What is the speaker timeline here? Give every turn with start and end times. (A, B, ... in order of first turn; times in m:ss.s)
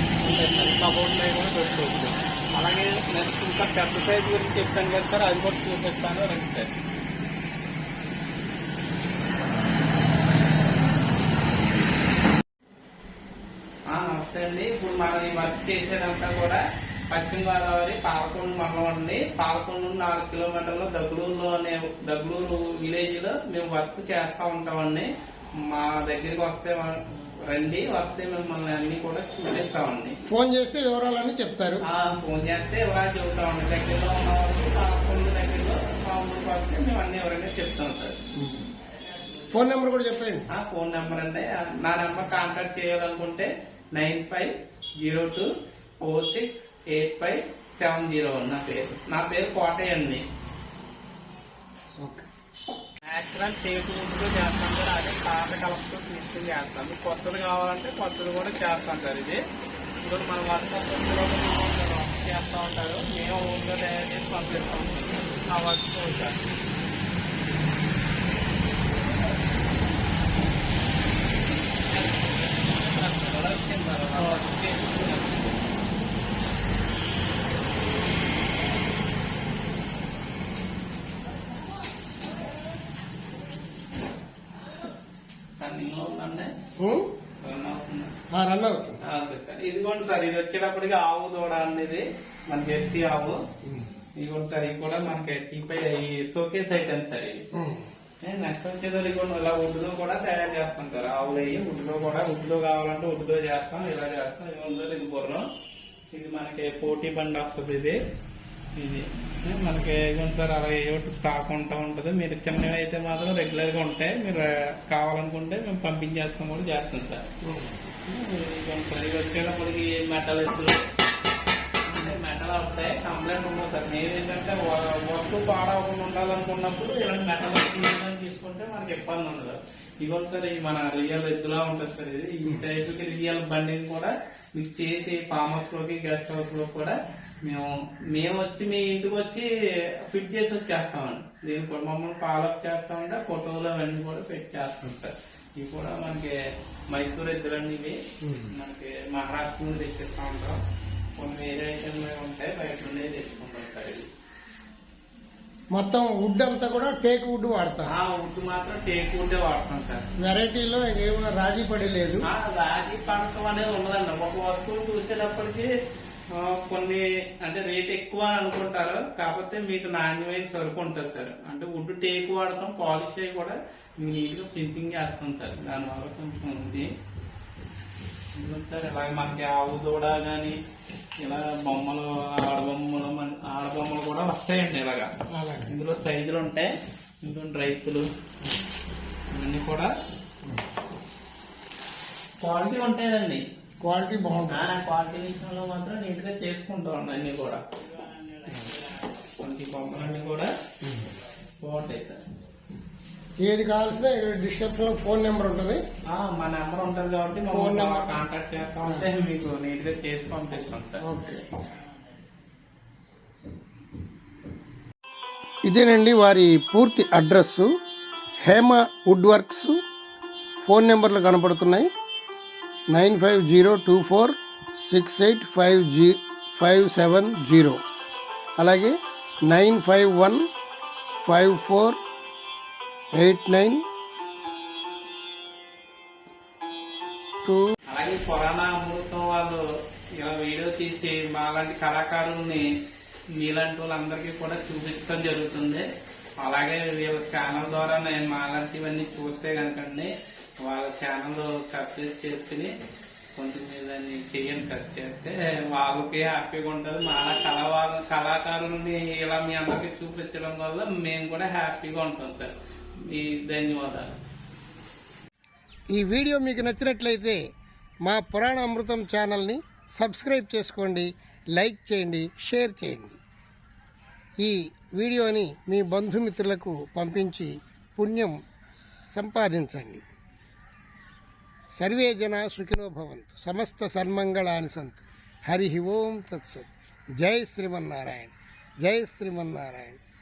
0:00.2-0:06.7 A
0:13.9-0:25.1 A
0:25.6-0:30.2 A
0:30.3-0:31.8 B
0:31.8-0:38.2 A
0:38.4-0:38.7 B
0:39.5-0:40.5 B
0:40.5-0:45.5 A
0:46.0-0:50.2 A
0:53.0-0:59.4 A
1:00.0-1:06.4 A
1:11.6-1:15.7 A
1:25.6-1:26.5 A
1:26.8-1:27.1 B
1:27.4-1:28.1 A
1:28.3-1:29.0 B
1:29.0-1:33.4 A
1:33.6-1:33.9 B
1:34.2-1:37.4 A
1:37.6-1:37.9 B
1:38.2-1:45.5 A
1:46.1-1:48.0 A
1:48.8-1:57.2 A
1:57.4-1:57.8 B
1:58.0-2:00.8 A
2:01.9-2:19.5 A
2:20.1-2:26.3 A
2:26.9-2:28.0 A
2:28.2-2:28.5 B
2:28.5-2:30.6 A
2:31.2-2:34.1 A
2:35.7-2:37.9 B
2:37.9-2:40.0 A
2:40.2-2:42.2 B
2:42.2-2:45.7 A
2:46.3-2:56.9 A
2:58.4-3:00.6 A
3:01.2-3:05.1 A
3:05.3-3:05.7 B
3:05.7-3:06.7 A
3:07.2-3:08.0 A
3:09.3-3:09.9 A
3:12.4-3:13.4 A
3:13.8-3:14.7 B
3:14.5-3:20.5 A
3:20.8-3:21.1 B
3:21.6-3:22.2 A
3:23.4-3:25.8 B
3:26.1-3:31.0 A
3:27.5-3:28.2 B
3:28.8-3:29.1 B
3:31.0-3:31.5 B
3:35.7-3:37.7 B
3:38.5-3:39.7 B
3:40.6-3:41.9 B
3:42.9-3:47.8 B
3:48.6-3:48.9 B
3:49.5-3:50.4 B
3:51.2-3:52.0 B
3:53.2-3:53.8 B
3:57.4-3:57.7 B
3:57.9-3:59.6 A
4:00.2-4:02.7 A
4:03.4-4:05.8 A
4:06.4-4:10.1 A
4:10.6-4:12.7 A
4:13.4-4:22.5 A
4:23.1-4:24.2 A
4:25.9-4:27.4 B
4:28.0-4:33.2 B
4:34.4-4:38.4 B
4:39.1-4:40.0 B
4:41.8-4:46.7 B
4:47.2-4:50.0 B